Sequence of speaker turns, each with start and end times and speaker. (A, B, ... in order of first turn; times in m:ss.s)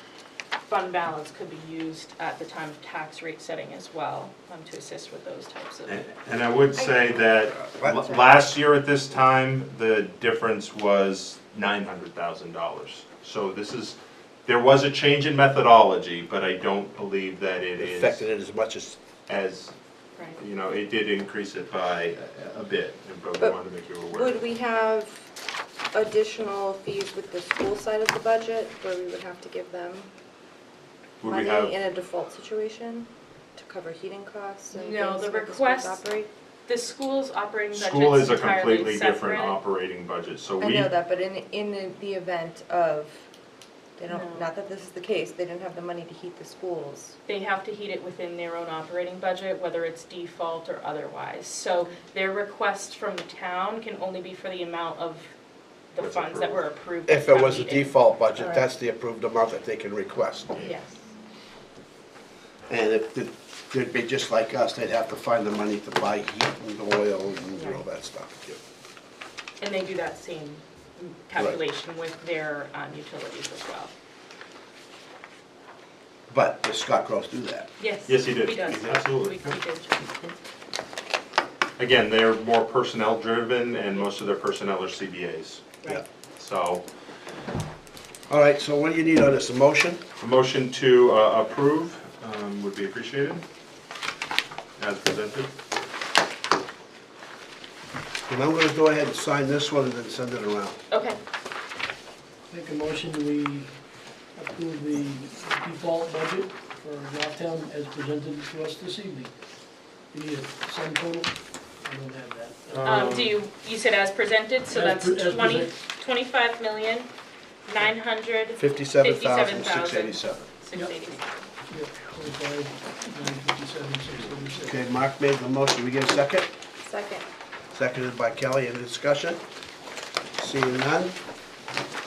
0:00.7-0:06.0 A
0:05.9-0:18.3 B
0:06.8-0:07.0 C
0:07.6-0:08.1 D
0:17.8-0:19.0 D
0:19.3-0:19.8 B
0:20.2-0:20.4 A
0:20.4-0:24.5 B
0:24.1-0:25.3 C
0:25.9-0:30.1 C
0:31.2-0:31.8 B
0:31.2-0:36.3 C
0:34.7-0:36.0 A
0:36.7-0:39.6 A
0:37.7-0:40.9 B
0:40.6-0:43.2 C
0:44.0-0:47.2 C
0:44.1-0:44.5 A
0:47.3-0:55.3 A
0:55.9-0:57.9 A
0:56.0-0:56.6 B
0:57.1-1:00.6 D
1:00.6-1:00.9 A
1:02.7-1:08.6 D
1:09.6-1:13.9 A
1:16.3-1:17.7 D
1:17.8-1:20.3 A
1:18.1-1:19.6 B
1:21.8-1:25.8 B
1:26.4-1:26.9 B
1:28.3-1:30.0 D
1:30.2-1:33.4 B
1:34.8-1:35.5 B
1:38.3-1:40.8 D
1:40.9-1:41.2 A
1:42.5-1:49.4 E
1:50.1-1:53.0 E
1:52.7-1:53.4 B
1:52.8-1:57.1 A
1:54.7-1:55.8 E
1:57.7-2:01.3 A
1:58.6-2:00.5 D
2:01.7-2:04.8 E
2:04.6-2:06.5 D
2:06.8-2:07.2 C
2:07.7-2:09.4 D
2:10.4-2:11.2 D